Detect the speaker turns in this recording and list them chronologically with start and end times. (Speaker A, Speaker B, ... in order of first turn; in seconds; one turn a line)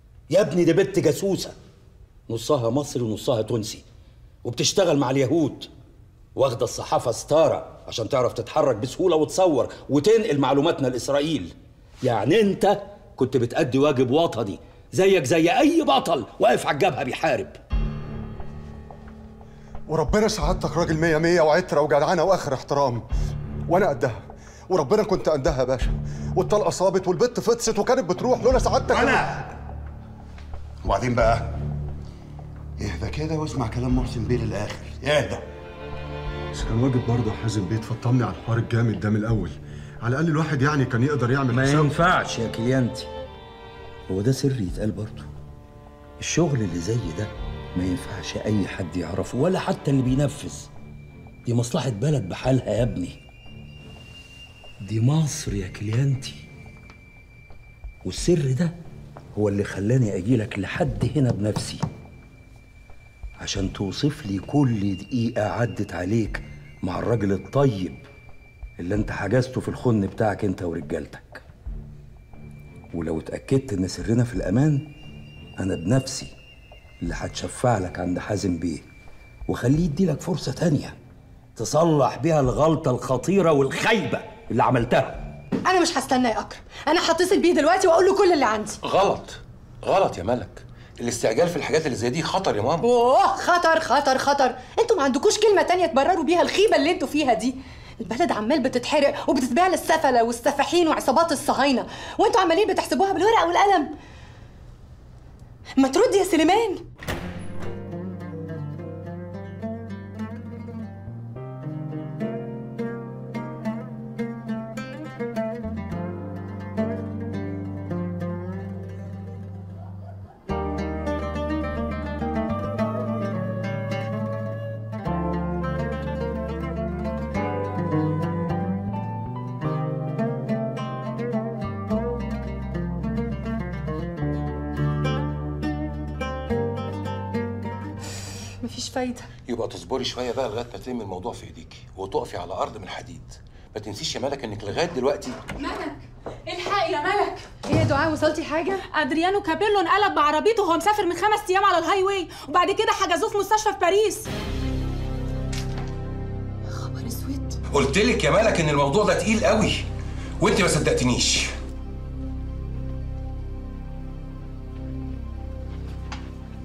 Speaker A: 0.3-1.5
Speaker A: 2.3-3.8
Speaker A: 4.4-5.7
Speaker A: 6.3-17.6
Speaker B: 19.9-23.0
Speaker B: 23.7-29.3
Speaker C: 28.9-29.4
Speaker C: 30.8-31.6
Speaker C: 32.8-35.5
Speaker B: 36.5-41.9
Speaker A: 41.5-43.1
Speaker A: 44.1-45.3
Speaker A: 46.2-50.7
Speaker A: 51.5-53.2
Speaker A: 54.8-56.4
Speaker A: 58.0-58.7
Speaker A: 59.4-61.8
Speaker A: 63.4-68.0
Speaker A: 68.8-71.4
Speaker A: 72.9-74.9
Speaker A: 75.6-76.3
Speaker A: 77.0-78.9
Speaker A: 79.5-81.0
Speaker A: 81.6-85.2
Speaker D: 85.7-88.8
Speaker E: 88.8-92.9
Speaker D: 92.8-103.9
Speaker D: 105.8-106.8
Speaker D: 138.6-139.3
Speaker E: 139.5-145.4
Speaker F: 145.7-147.6
Speaker D: 147.6-148.9
Speaker F: 148.9-154.3
Speaker D: 156.8-157.6
Speaker E: 157.7-159.9
Speaker E: 160.4-161.5